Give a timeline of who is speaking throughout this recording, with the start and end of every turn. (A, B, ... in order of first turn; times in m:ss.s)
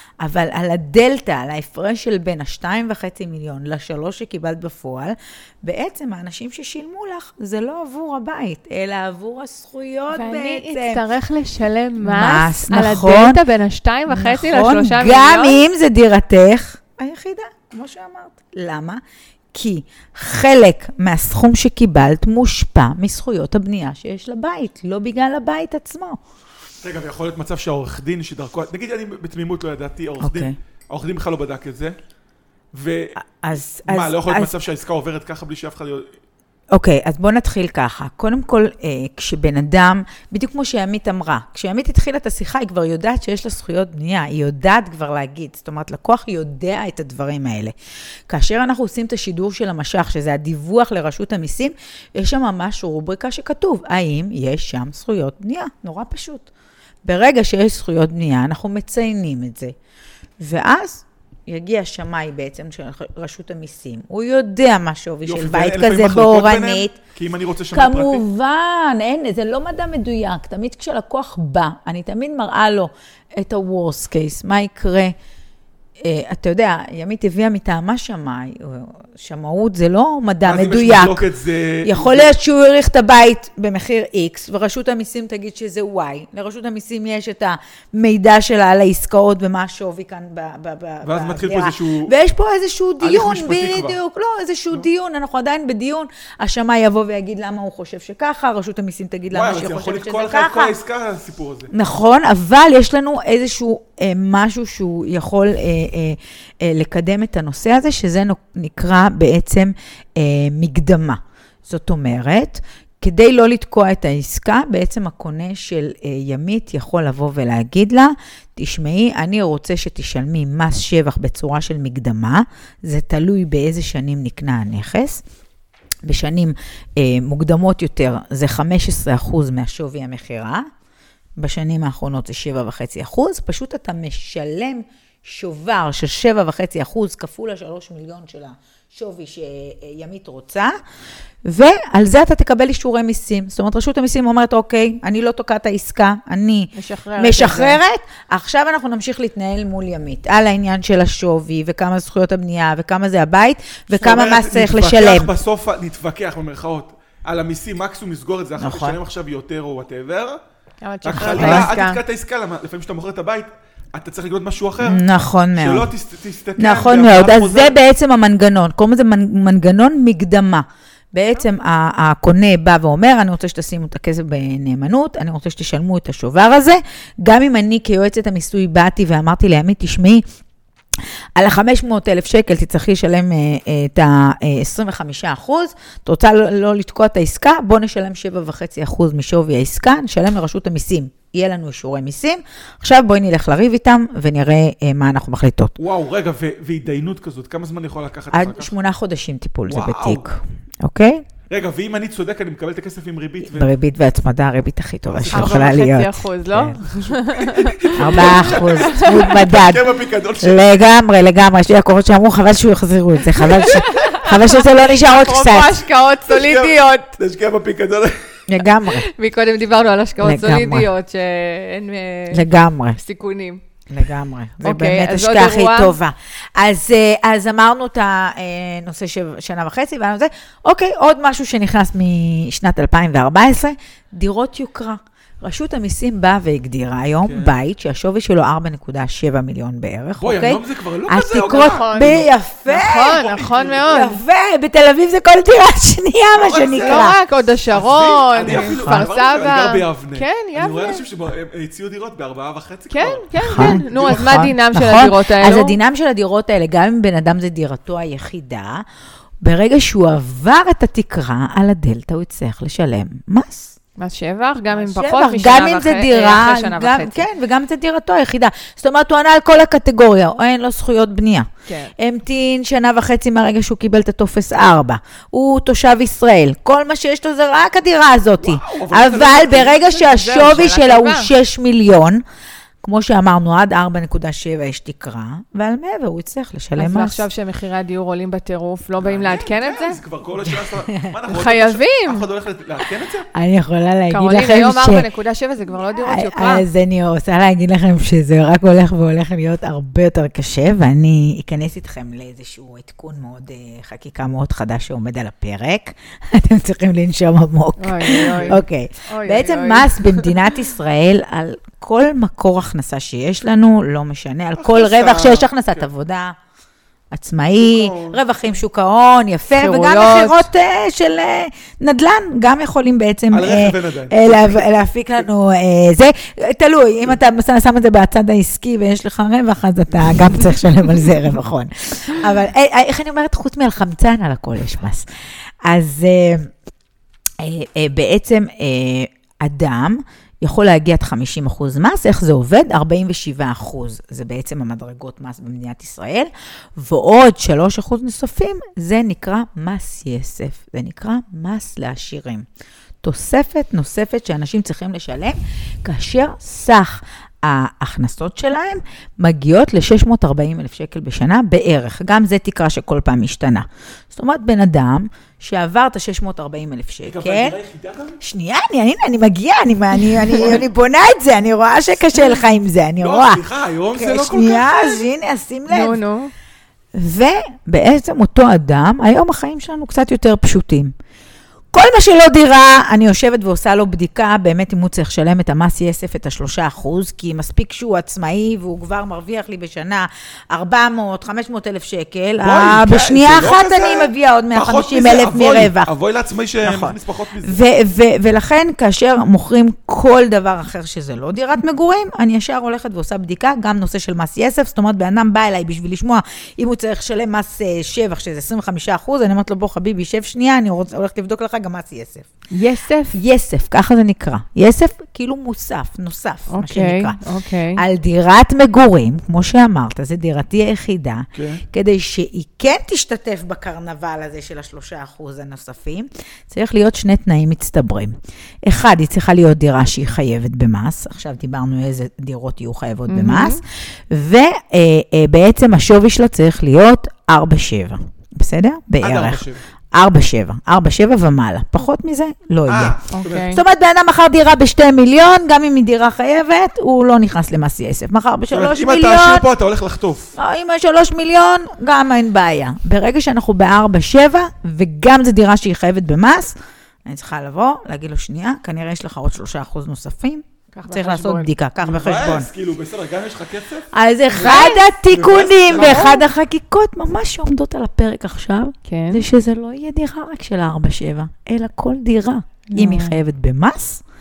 0:00.2-0:11.0 A
0:10.1-0:15.6 B
0:12.0-0:13.4 A
0:14.1-0:19.0 A
0:19.5-0:26.2 A
0:26.8-0:31.9 C
0:30.2-0:30.6 A
0:32.7-0:33.1 C
0:33.2-0:34.5 A
0:33.8-0:36.1 C
0:36.7-0:47.7 A
0:48.3-0:56.5 A
0:57.0-0:59.7 A
1:00.4-1:07.0 A
1:05.2-1:08.2 C
1:07.7-1:15.1 A
1:16.0-1:21.3 A
1:20.4-1:22.3 C
1:21.8-1:40.7 A
1:31.0-1:32.1 C
1:33.0-1:34.0 C
1:39.3-1:41.7 C
1:41.7-2:05.2 A
2:06.0-2:10.7 A
2:11.4-2:20.7 A
2:21.4-2:35.3 A
2:26.8-2:27.8 B
2:33.9-2:40.4 C
2:38.6-2:39.0 A
2:40.8-2:42.0 B
2:41.0-2:47.7 C
2:41.2-2:41.7 A
2:44.8-2:45.9 A
2:46.6-3:00.2 A
3:01.4-3:15.8 A
3:15.8-3:18.7 C
3:18.3-3:21.2 A
3:19.7-3:20.3 C
3:21.5-3:23.7 C
3:23.4-3:26.8 A
3:25.1-3:25.8 C
3:25.3-3:29.3 B
3:26.8-3:30.7 C
3:28.0-3:29.9 A
3:30.4-3:35.8 A
3:33.6-3:37.1 B
3:36.3-3:38.4 C
3:38.5-3:39.1 A
3:38.9-3:43.6 B
3:40.2-3:40.9 A
3:42.3-3:43.0 A
3:43.9-4:03.2 A
3:44.6-3:46.0 B
3:57.2-3:57.6 C
4:00.2-4:02.3 C
4:01.5-4:04.2 B
4:03.1-4:04.0 C
4:03.8-4:07.2 A
4:06.4-4:07.1 C
4:06.8-4:11.0 B
4:07.7-4:14.5 C
4:08.4-4:09.0 A
4:12.9-4:15.8 B
4:13.4-4:18.8 A
4:19.4-4:23.8 A
4:24.0-4:27.2 B
4:24.7-4:42.2 A
4:31.7-4:31.9 B
4:38.4-4:39.8 C
4:39.5-4:41.3 B
4:42.8-4:47.2 A
4:46.8-4:50.0 B
4:49.0-4:53.3 C
4:50.4-4:51.1 A
4:51.3-4:52.2 B
4:53.3-4:55.0 A
4:54.1-4:56.6 B
4:55.8-5:16.4 A
5:07.8-5:10.4 B
5:08.3-5:08.6 C
5:14.6-5:15.9 C
5:17.1-5:35.0 A
5:17.6-5:18.2 C
5:19.6-5:20.4 B
5:23.3-5:24.7 C
5:35.6-5:36.5 A
5:37.4-5:52.4 A
5:53.0-6:07.6 A
6:07.0-6:08.2 C
6:08.2-6:16.0 A
6:13.0-6:15.0 C
6:15.7-6:16.3 B
6:16.9-6:20.9 A
6:21.7-6:35.9 A
6:32.4-6:37.6 C
6:36.6-6:52.3 A
6:52.5-6:53.1 B
6:53.1-6:57.2 A
6:56.5-6:57.8 B
6:57.8-7:29.4 A
7:01.3-7:01.6 C
7:13.1-7:13.6 B
7:19.0-7:19.6 C
7:22.7-7:23.5 C
7:23.1-7:23.6 B
7:28.5-7:30.4 C
7:30.4-7:42.5 A
7:40.7-7:41.5 B
7:41.8-7:46.2 C
7:43.9-7:54.0 A
7:44.4-7:44.9 B
7:45.7-7:46.2 B
7:48.9-7:49.2 B
7:52.7-7:53.2 B